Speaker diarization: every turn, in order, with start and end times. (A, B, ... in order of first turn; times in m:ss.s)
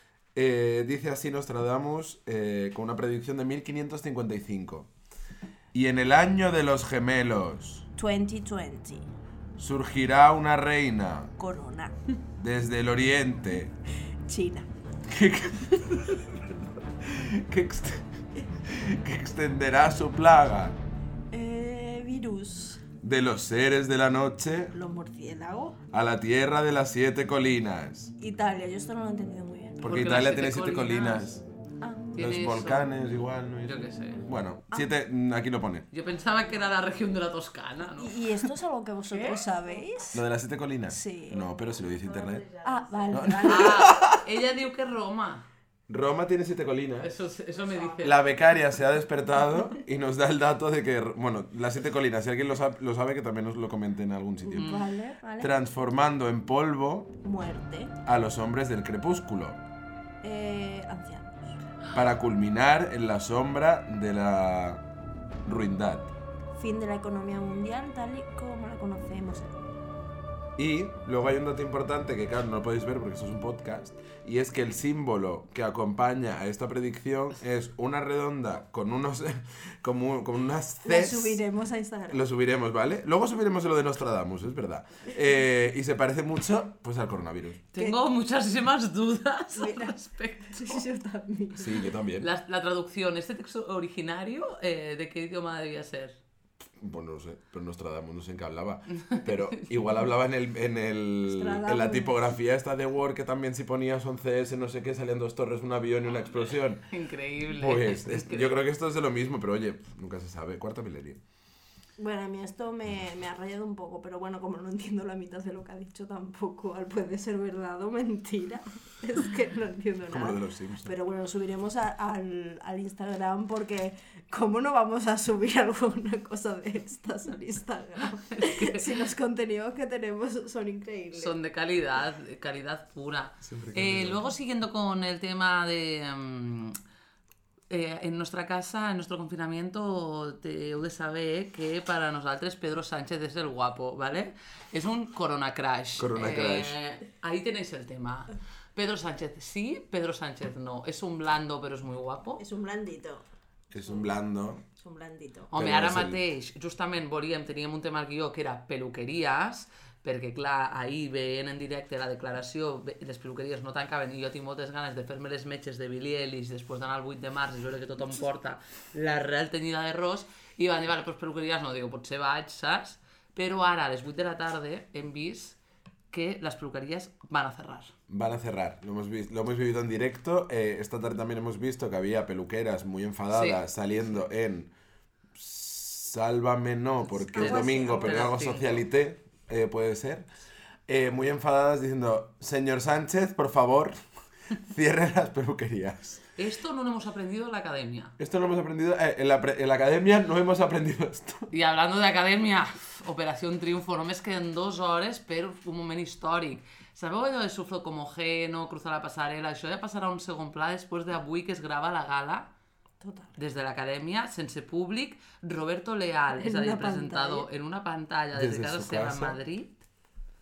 0:00.4-0:04.9 A
0:05.7-0:07.9 A
0:08.0-0:09.1 B
0:09.6-0:11.3 A
0:11.4-0:12.0 B
0:12.4-0:13.7 A
0:14.3-0:14.7 B
0:15.1-0:20.8 A
0:21.3-0:22.8 B
0:23.0-0:24.8 A
0:24.7-0:25.8 B
0:25.9-0:28.1 A
0:28.2-0:29.9 B
0:29.8-0:31.4 A
0:29.8-0:31.3 C
0:32.1-0:32.9 C
0:32.2-0:35.9 A
0:33.6-0:34.2 C
0:35.9-0:38.2 C
0:38.0-0:40.2 B
0:40.1-0:42.5 A
0:40.9-0:41.4 B
0:42.0-0:45.5 C
0:42.6-0:43.9 B
0:43.1-0:44.2 A
0:45.9-0:47.1 A
0:47.0-0:48.2 C
0:48.0-0:54.8 A
0:54.4-0:55.5 B
0:55.4-0:57.1 A
0:57.2-0:57.9 B
0:58.0-0:59.6 A
1:00.2-1:01.6 B
1:01.9-1:04.9 A
1:05.4-1:06.1 A
1:06.5-1:09.5 B
1:10.6-1:21.4 A
1:20.8-1:22.2 B
1:22.1-1:27.7 A
1:27.7-1:30.8 C
1:29.6-1:30.0 B
1:30.5-1:31.9 B
1:31.6-1:32.3 A
1:32.2-1:36.2 C
1:36.8-1:46.9 A
1:39.0-1:39.9 C
1:41.2-1:42.2 B
1:46.9-1:48.6 C
1:47.4-1:51.2 A
1:52.0-2:11.4 B
2:00.1-2:00.9 A
2:08.3-2:09.0 C
2:11.1-2:16.8 C
2:13.4-2:14.3 A
2:17.7-2:32.4 C
2:26.0-2:26.8 A
2:32.4-2:33.2 B
2:33.7-2:34.6 A
2:33.8-2:34.1 B
2:34.7-2:35.5 B
2:35.5-2:55.6 C
2:35.5-2:36.2 A
2:56.1-2:58.0 C
2:58.1-3:04.7 A
3:03.3-3:03.6 C
3:05.3-3:10.3 A
3:07.1-3:08.4 B
3:07.4-3:08.8 C
3:10.9-3:14.0 A
3:14.6-3:16.2 A
3:16.4-3:18.2 C
3:18.2-3:21.5 A
3:21.5-3:32.5 C
3:33.0-3:33.3 B
3:33.4-3:39.8 C
3:36.3-3:37.5 B
3:38.3-3:39.4 A